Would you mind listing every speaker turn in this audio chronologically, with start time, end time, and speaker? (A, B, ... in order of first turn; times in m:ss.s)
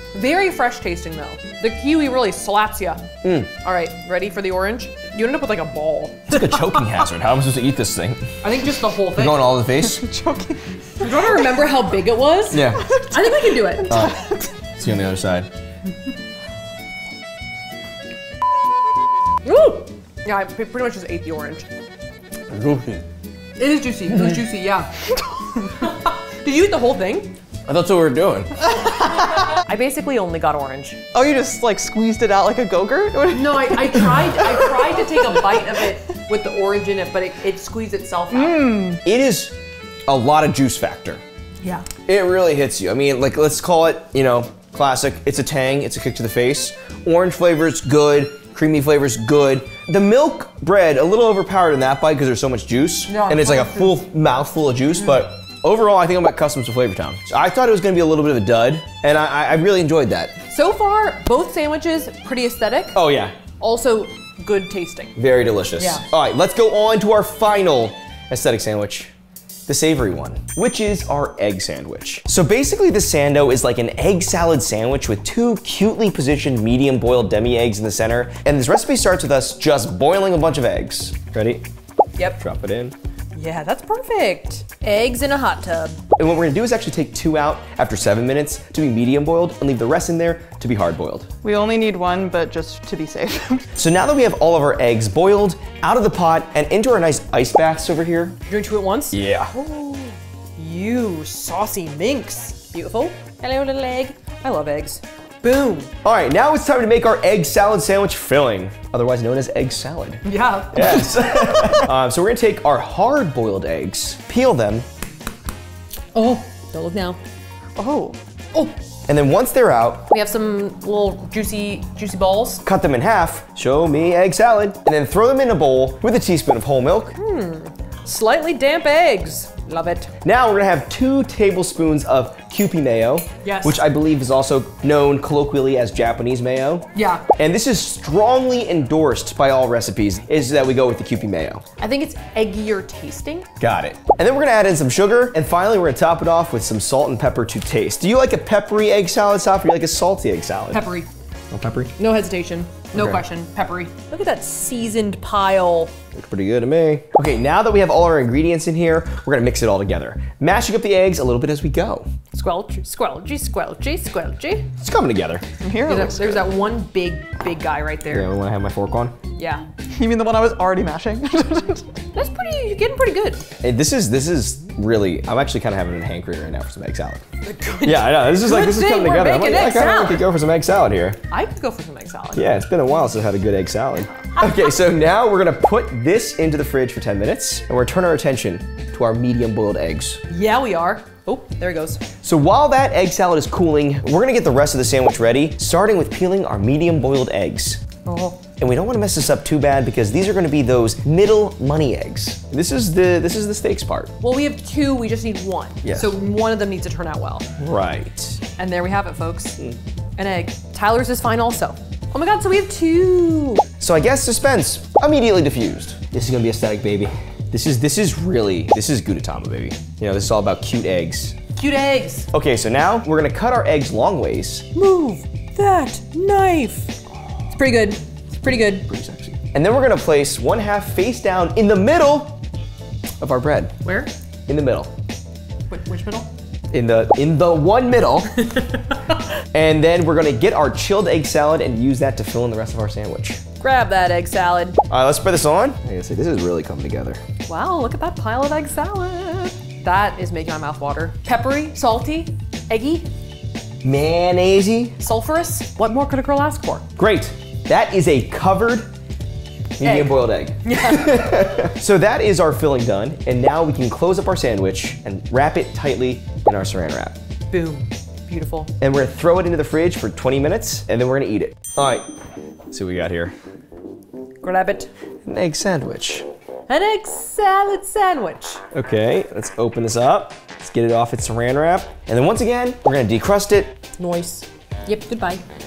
0:00.1-0:03.0 A
0:03.2-0:03.5 B
0:03.6-0:07.0 A
0:06.3-0:08.2 B
0:08.4-0:09.5 A
0:09.1-0:10.1 B
0:09.8-0:11.1 C
0:11.0-0:14.1 A
0:12.5-0:12.9 B
0:13.8-0:14.5 C
0:13.9-0:14.2 B
0:14.8-0:15.5 B
0:19.4-0:21.6 A
0:22.5-0:23.0 B
0:23.6-0:24.9 A
0:25.6-0:27.4 A
0:27.7-0:28.5 B
0:29.0-0:31.0 A
0:31.1-0:35.0 C
0:33.3-0:39.0 A
0:38.3-0:39.0 C
0:39.0-0:39.5 B
0:40.1-0:41.2 B
0:41.6-0:41.9 A
0:42.1-1:00.4 B
0:53.1-0:54.0 A
1:00.5-1:03.0 A
1:02.9-1:03.4 B
1:03.6-1:05.2 A
1:05.2-1:09.1 B
1:05.8-1:06.0 A
1:09.7-1:21.6 B
1:22.4-1:22.9 B
1:23.3-1:26.0 A
1:26.2-1:31.3 B
1:31.4-1:33.7 C
1:33.8-1:38.4 B
1:38.5-1:45.9 A
1:39.1-1:39.5 B
1:46.0-1:54.8 B
1:50.2-1:51.8 A
1:56.1-1:57.2 A
1:57.8-1:58.2 C
1:59.1-2:00.1 B
2:00.1-2:02.6 A
2:02.6-2:07.2 B
2:07.2-2:10.1 A
2:10.2-2:21.6 B
2:13.4-2:13.8 A
2:16.9-2:17.2 A
2:21.8-2:23.5 A
2:23.6-2:30.9 B
2:30.7-2:31.1 A
2:31.5-2:31.9 B
2:32.0-2:35.9 A
2:32.9-2:33.2 B
2:36.1-2:42.1 B
2:42.3-2:44.7 A
2:44.8-2:45.4 B
2:45.6-2:46.5 C
2:45.8-2:48.3 A
2:48.1-2:49.1 B
2:49.4-2:49.6 A
2:50.0-2:51.9 C
2:52.1-2:53.5 A
2:53.6-2:57.2 B
2:57.4-3:00.2 A
2:57.8-3:01.2 B
3:01.3-3:02.4 A
3:02.3-3:10.2 B
3:04.3-3:04.8 A
3:10.3-3:12.0 A
3:12.2-3:17.8 B
3:18.0-3:18.4 A
3:18.6-3:24.1 B
3:24.2-3:27.5 A
3:25.8-3:26.1 B
3:27.6-3:28.4 B
3:28.6-3:29.6 A
3:30.2-3:33.6 A
3:33.8-3:41.4 B
3:41.6-3:42.3 A
3:42.3-3:44.7 B
3:44.7-3:46.9 A
3:47.5-3:48.9 A
3:48.9-3:52.4 B
3:53.2-3:53.7 B
3:53.8-3:54.1 A
3:54.5-3:54.9 B
3:55.7-3:56.3 A
3:56.7-3:58.5 B
3:59.5-4:03.4 B
4:03.6-4:04.8 A
4:04.9-4:07.2 B
4:07.5-4:13.1 A
4:13.8-4:15.0 B
4:15.0-4:16.9 A
4:17.0-4:18.9 B
4:19.8-4:27.2 B
4:19.8-4:21.5 A
4:27.5-4:28.7 A
4:28.8-4:32.0 B
4:32.7-4:33.3 B
4:34.4-4:34.9 A
4:35.2-4:36.3 B
4:36.7-4:38.6 A
4:38.7-4:43.8 B
4:44.0-4:45.4 A